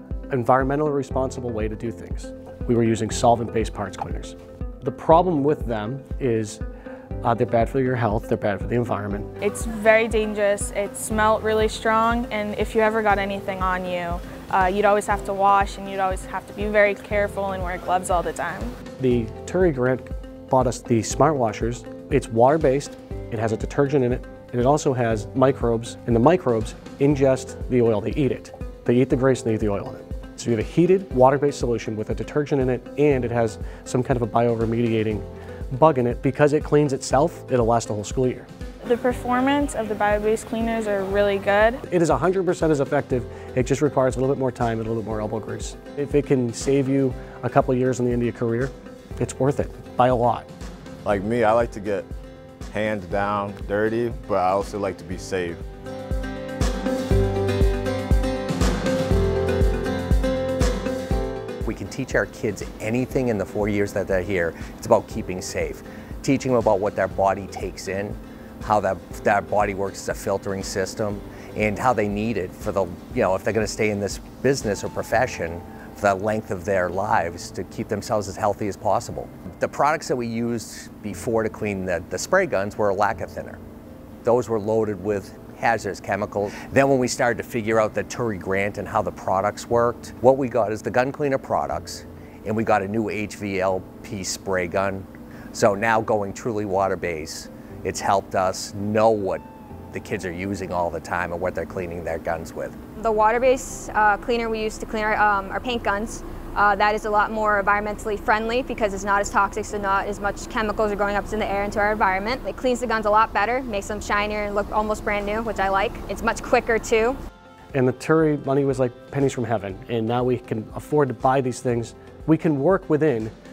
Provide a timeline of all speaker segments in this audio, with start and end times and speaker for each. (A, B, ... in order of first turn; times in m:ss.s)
0:00.3-0:06.6 A
0:07.2-0:09.3 A
0:09.4-0:18.7 B
0:19.0-0:38.5 A
0:38.8-0:41.8 B
0:41.9-0:50.5 A
0:51.0-0:52.1 C
0:52.7-0:55.6 C
1:01.6-1:23.6 D
1:24.2-1:42.8 D
1:43.0-1:57.2 E
1:57.7-2:03.3 A